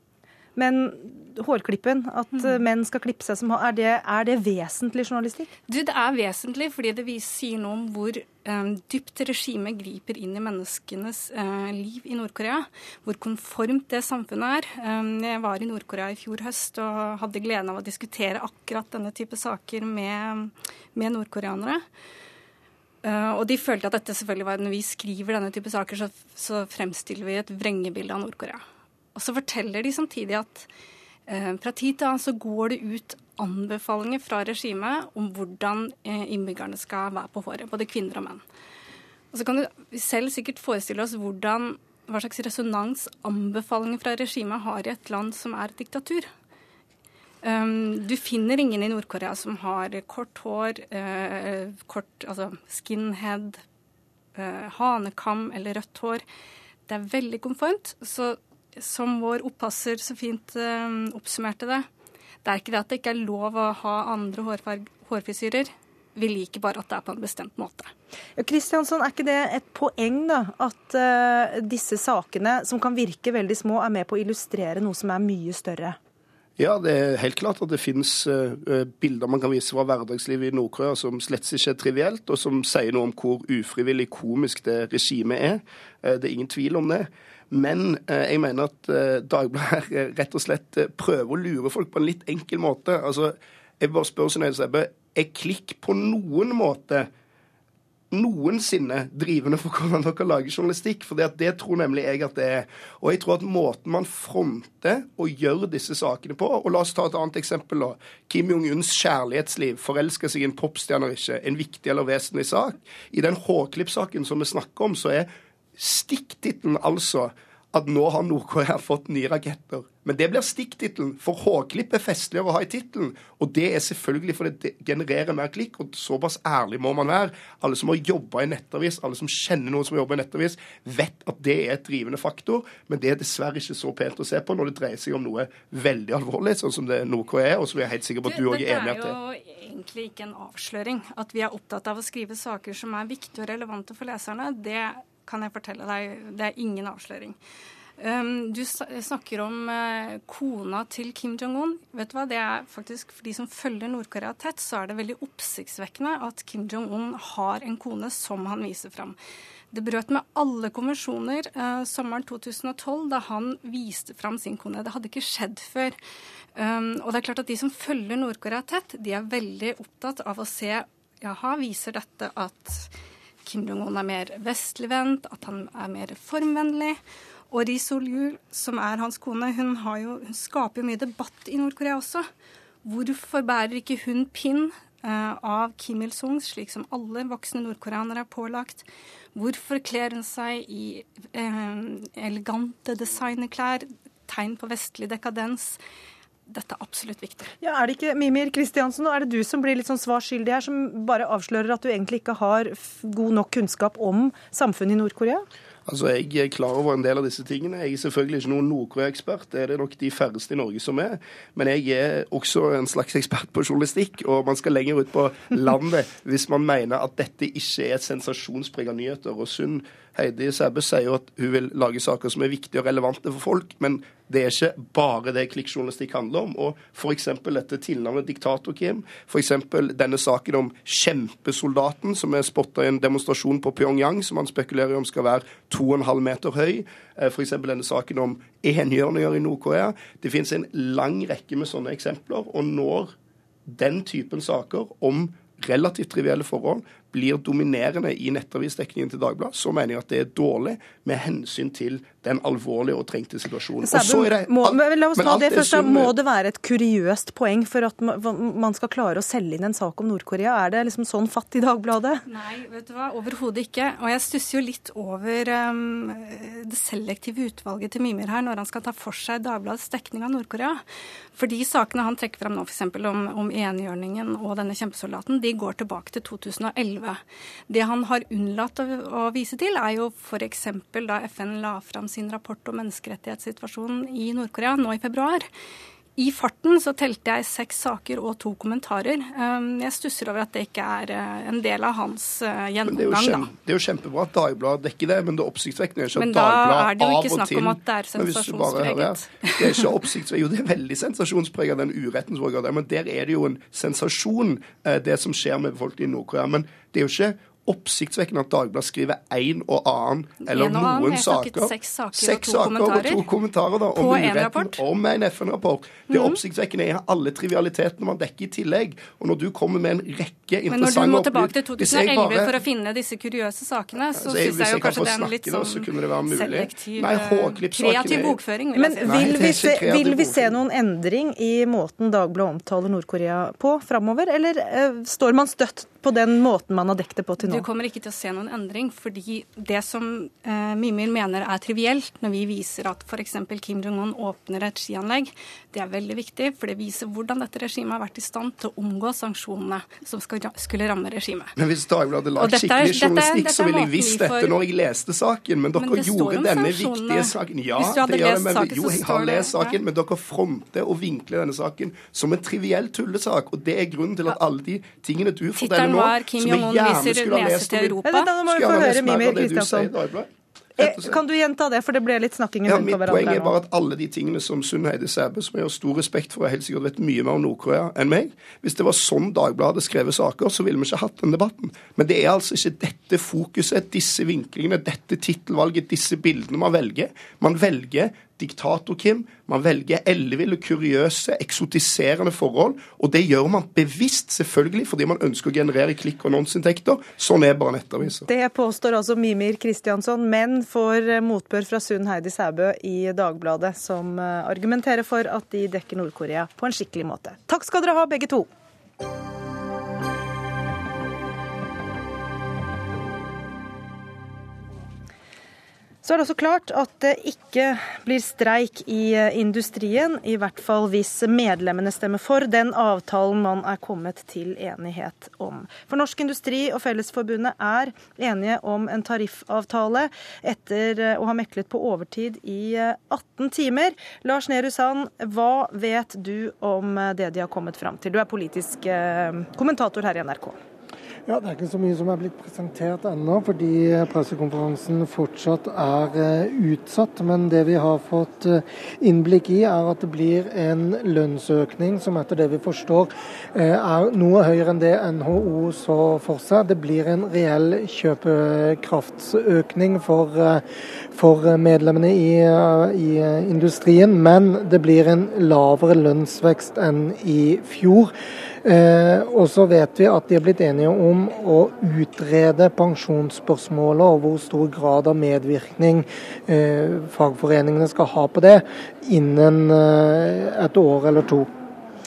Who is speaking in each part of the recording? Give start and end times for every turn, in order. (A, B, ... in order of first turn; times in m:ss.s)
0:00.6-0:05.5 A
0:05.7-0:21.8 B
0:23.0-0:28.6 B
0:29.1-0:30.7 B
0:31.3-0:38.4 B
0:39.3-0:46.3 B
0:47.4-0:53.6 B
0:54.3-0:56.2 B
0:56.9-1:01.9 B
1:02.4-1:07.9 B
1:08.4-1:16.0 A
1:16.6-1:37.1 C
1:38.1-2:19.2 C
2:18.2-2:27.4 B
2:28.0-2:39.2 B
2:39.7-2:46.0 B
2:46.6-2:52.9 B
2:53.4-2:57.0 B
2:57.5-3:02.3 B
3:02.8-3:15.8 B
3:16.5-3:17.5 B
3:17.6-3:25.4 A
3:25.9-4:03.1 C
4:03.6-4:16.1 C
4:13.8-4:22.2 A
4:22.3-4:45.5 B
4:46.2-4:53.5 B
4:52.8-5:22.6 C
4:56.1-5:00.0 B
5:10.4-5:13.3 B
5:13.9-5:14.8 B
5:16.1-5:16.4 B
5:20.7-5:29.7 B
5:24.2-5:28.4 C
5:28.8-5:37.6 A
5:29.1-5:30.6 C
5:37.4-5:51.5 B
5:51.6-6:11.2 C
5:52.4-5:54.6 B
5:55.7-5:59.8 B
6:05.6-6:08.3 B
6:08.0-6:09.9 A
6:10.8-6:13.5 A
6:12.7-6:38.3 C
6:38.2-6:48.5 A
6:56.0-7:20.6 A
7:21.3-7:48.1 D
7:48.6-8:01.5 D